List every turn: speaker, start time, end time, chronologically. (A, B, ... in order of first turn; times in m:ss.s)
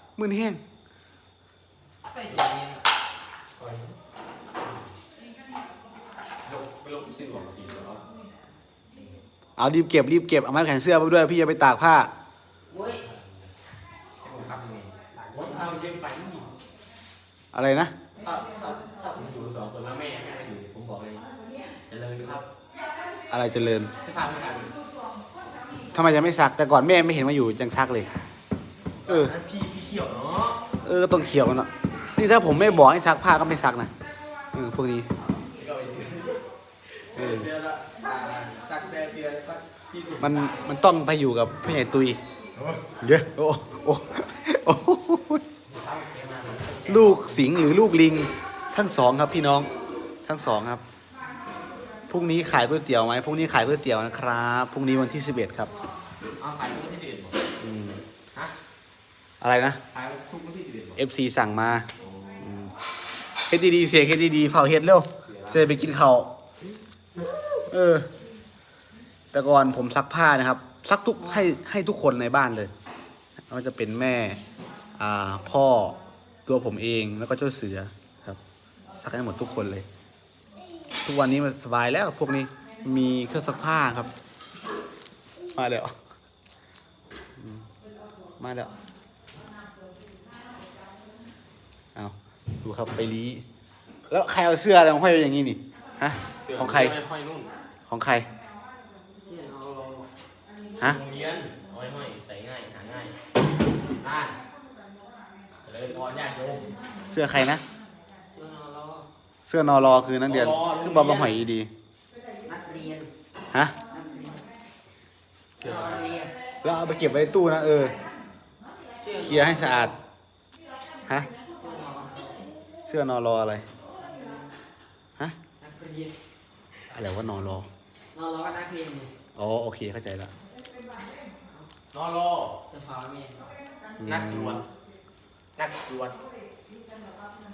0:00.2-0:00.6 A
0:02.1-0:02.8 B
0:03.6-0:04.0 C
0:04.6-0:04.9 C
0:06.4-0:08.0 C
0:08.9-0:09.2 C
0:09.6-0:12.1 A
0:12.7-0:13.0 B
0:13.0-0:13.5 C
0:14.2-0:16.5 C
0:15.2-0:15.6 B
0:17.5-0:17.9 A
0:18.2-0:21.3 C
0:21.9-0:22.5 C
0:23.3-0:23.9 A
0:24.0-0:24.8 C
0:25.9-0:28.1 A
0:29.1-0:30.6 C
0:29.1-0:29.3 A
0:30.8-0:33.9 A
0:34.5-0:35.1 A
0:35.4-0:36.4 C
0:37.0-0:40.7 C
0:37.2-0:37.5 A
0:40.2-0:42.2 A
0:42.6-0:43.0 C
0:43.0-0:45.4 A
0:45.7-0:47.5 C
0:46.9-0:49.7 A
0:50.2-0:50.8 A
0:52.1-0:55.7 A
0:56.4-0:57.4 C
0:57.6-0:58.0 A
0:59.4-0:59.8 A
0:59.9-1:01.0 C
1:01.0-1:01.9 A
1:02.0-1:02.5 C
1:02.4-1:02.7 A
1:03.5-1:06.3 A
1:05.2-1:05.9 C
1:07.1-1:07.6 C
1:07.7-1:08.1 A
1:09.3-1:12.7 A
1:13.5-1:14.4 A
1:15.0-1:18.4 A
1:19.0-1:19.9 A
1:21.0-1:24.1 A
1:25.5-1:25.9 A
1:27.4-1:27.7 A
1:28.4-1:28.7 A
1:32.0-1:33.4 A
1:34.1-1:37.0 A
1:36.4-1:37.5 C
1:37.9-1:38.3 A
1:39.2-1:40.1 B
1:40.8-1:43.2 C
1:44.0-1:44.4 C
1:45.6-1:46.8 C
1:47.1-1:47.6 A
1:48.3-1:49.1 B
1:49.5-1:51.7 A
1:50.2-1:51.4 C
1:52.4-1:53.1 B
1:53.9-1:54.5 B
1:55.6-1:56.2 C
1:55.6-1:56.4 B
1:56.6-1:57.9 A
1:59.0-1:59.9 B
1:59.2-1:59.9 A
2:01.5-2:02.5 B
2:02.9-2:03.6 A
2:04.0-2:04.5 B
2:05.6-2:06.2 B
2:06.9-2:07.7 A
2:08.1-2:09.1 B
2:09.4-2:10.3 A
2:11.9-2:12.6 C
2:12.7-2:13.4 B
2:14.0-2:14.6 A
2:14.0-2:14.6 C
2:15.6-2:16.2 C